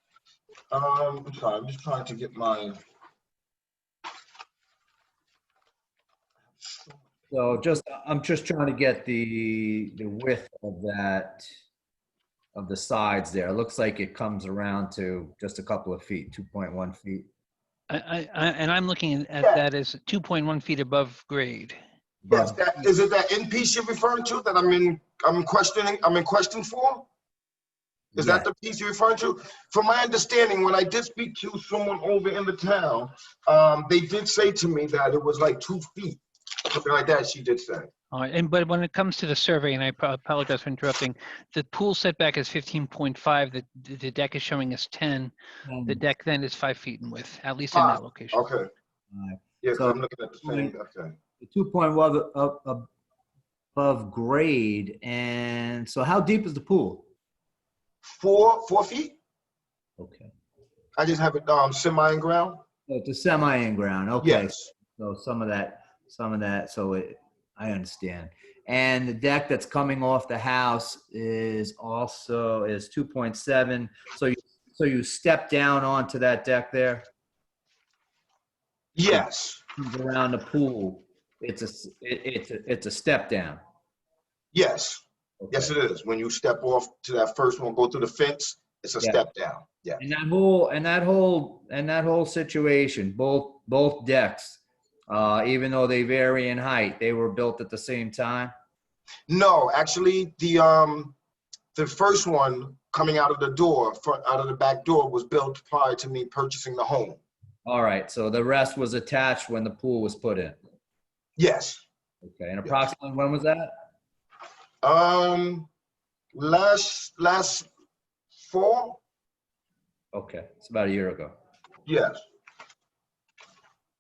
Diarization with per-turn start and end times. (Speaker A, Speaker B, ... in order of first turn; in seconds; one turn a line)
Speaker A: 0.7-2.8
Speaker B: 7.3-11.5
Speaker B: 12.5-17.3
Speaker C: 17.9-21.8
Speaker B: 22.2-22.6
Speaker A: 22.3-27.1
Speaker A: 28.1-37.9
Speaker B: 28.1-28.5
Speaker C: 38.1-45.3
Speaker B: 45.7-46.0
Speaker C: 45.9-48.4
Speaker A: 47.7-48.7
Speaker B: 49.1-50.7
Speaker A: 49.6-51.2
Speaker B: 51.4-52.9
Speaker B: 53.8-57.1
Speaker A: 58.0-59.2
Speaker B: 60.0-60.3
Speaker A: 61.0-62.6
Speaker B: 62.9-77.1
Speaker A: 64.2-64.7
Speaker A: 79.0-79.6
Speaker B: 79.8-83.6
Speaker A: 84.5-90.0
Speaker B: 85.4-85.7
Speaker B: 90.0-98.5
Speaker A: 99.3-101.2
Speaker A: 101.8-107.2
Speaker B: 107.7-110.6
Speaker A: 111.4-111.8
Speaker B: 112.2-113.8
Speaker A: 114.8-115.7
Speaker A: 116.3-117.7
Speaker A: 118.4-119.0
Speaker B: 120.1-121.3
Speaker A: 121.9-122.2